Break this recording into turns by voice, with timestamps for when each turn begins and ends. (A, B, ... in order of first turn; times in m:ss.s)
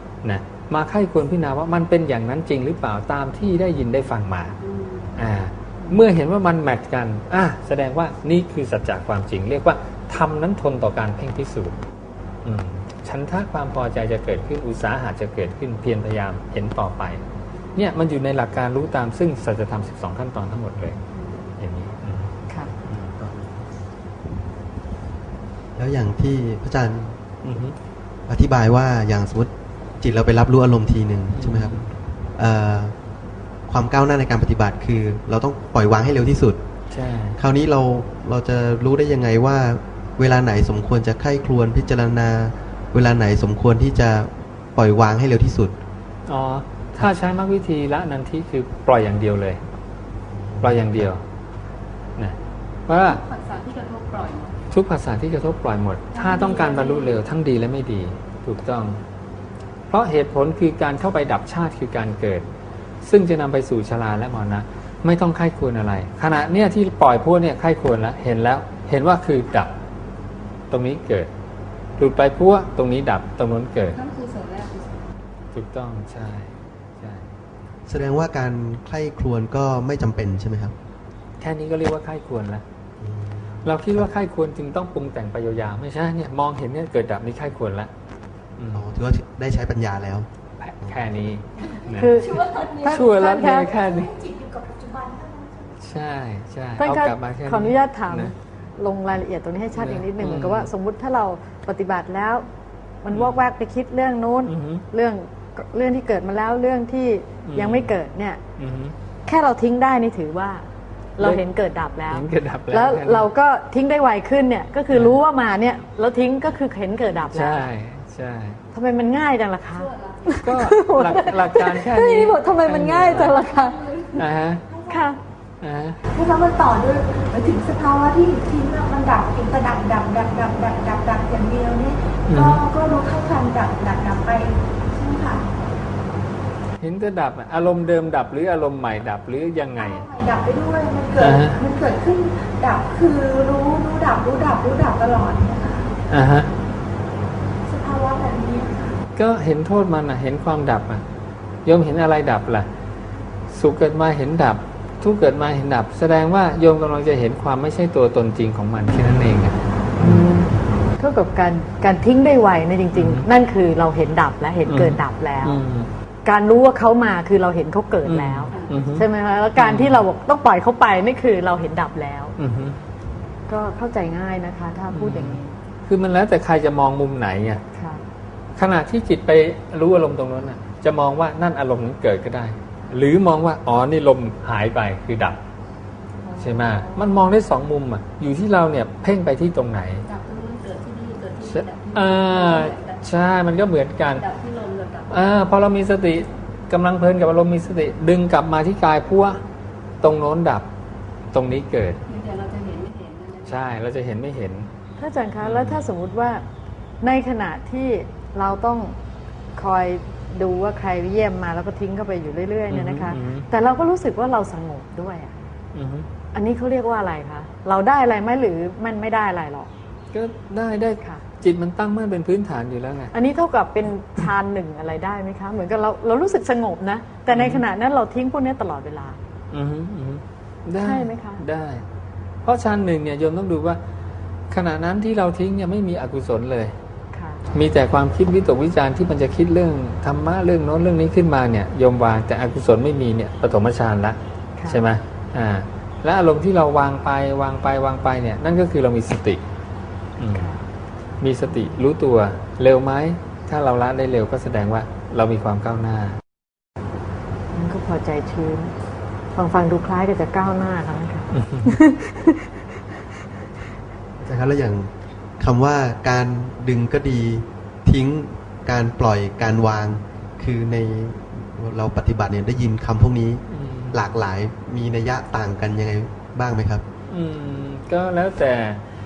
0:00.2-0:04.6 A
0:04.6-0:05.1 B
0:05.2-0:11.8 A
0:12.4-0:17.2 A
0:17.8-0:21.0 A
0:21.1-0:21.5 B
0:21.6-0:22.3 A
0:22.8-0:23.3 A
0:25.8-0:27.2 C
0:27.4-0:27.8 A
0:28.3-0:31.8 C
0:31.3-0:31.9 A
0:32.4-0:33.0 C
0:33.7-0:36.6 C
0:36.9-0:37.4 A
0:37.4-0:45.8 C
0:46.3-0:49.6 A
0:50.5-0:50.9 C
0:50.6-0:51.2 A
0:52.9-0:53.2 A
0:52.9-0:54.6 B
0:54.7-0:59.0 A
0:56.1-0:57.2 B
0:59.9-1:02.5 A
1:03.0-1:09.7 A
1:10.7-1:11.3 A
1:12.0-1:14.0 A
1:13.9-1:15.0 B
1:15.5-1:17.3 A
1:17.9-1:20.7 C
1:21.4-1:22.6 A
1:23.0-1:24.1 C
1:23.6-1:27.9 A
1:28.6-1:28.9 A
1:28.7-1:30.3 C
1:30.6-1:34.3 A
1:31.9-1:33.8 D
1:34.1-1:35.7 E
1:35.8-1:38.3 A
1:36.8-1:42.5 D
1:39.8-1:40.7 A
1:43.0-1:48.4 D
1:43.1-1:43.4 A
1:44.5-1:44.8 A
1:47.5-1:47.9 A
1:48.6-1:49.0 A
1:49.3-1:50.6 D
1:51.2-1:57.7 D
1:52.1-1:53.3 A
1:57.3-1:58.6 A
1:58.7-2:04.2 D
1:59.8-2:00.4 B
2:00.4-2:03.4 A
2:03.2-2:04.1 B
2:04.2-2:04.6 A
2:04.7-2:05.0 E
2:04.9-2:05.2 D
2:05.6-2:06.0 A
2:06.0-2:15.4 E
2:12.3-2:12.6 A
2:16.8-2:20.1 A
2:19.8-2:25.9 E
2:21.2-2:21.6 A
2:26.1-2:26.5 A
2:27.6-2:29.0 E
2:29.2-2:31.0 A
2:31.6-2:32.7 A
2:33.5-2:40.3 A
2:40.0-2:45.6 D
2:43.0-2:43.3 A
2:44.7-2:45.9 A
2:46.2-2:52.4 D
2:48.0-2:50.0 A
2:48.5-2:48.8 B
2:52.4-2:52.8 A
2:53.5-2:55.6 D
2:54.9-2:57.6 A
2:57.7-2:58.0 D
2:58.6-3:05.4 A
3:06.2-3:07.2 B
3:06.4-3:10.0 A
3:10.0-3:13.0 B
3:11.4-3:14.2 A
3:14.1-3:15.1 B
3:15.1-3:19.4 A
3:20.0-3:20.7 A
3:21.3-3:22.0 A
3:22.1-3:23.6 B
3:23.4-3:24.7 A
3:25.0-3:26.4 D
3:25.4-3:25.8 A
3:27.0-3:29.0 D
3:29.6-3:35.4 D
3:32.7-3:33.5 A
3:35.8-3:36.1 A
3:36.3-3:39.7 D
3:40.1-3:43.1 A
3:43.1-3:49.2 D
3:47.3-3:47.6 A
3:49.5-3:51.8 A
3:50.8-3:51.4 D
3:52.4-3:53.8 A
3:54.5-3:56.8 A
3:57.1-3:57.4 D
3:57.5-4:09.4 A
4:04.6-4:04.8 D
4:10.2-4:10.6 A
4:10.3-4:10.6 D
4:11.2-4:16.2 A
4:11.5-4:11.8 D
4:17.5-4:18.7 D
4:19.3-4:22.6 D
4:21.4-4:21.8 A
4:24.2-4:36.8 C
4:33.5-4:34.0 A
4:37.1-4:38.8 A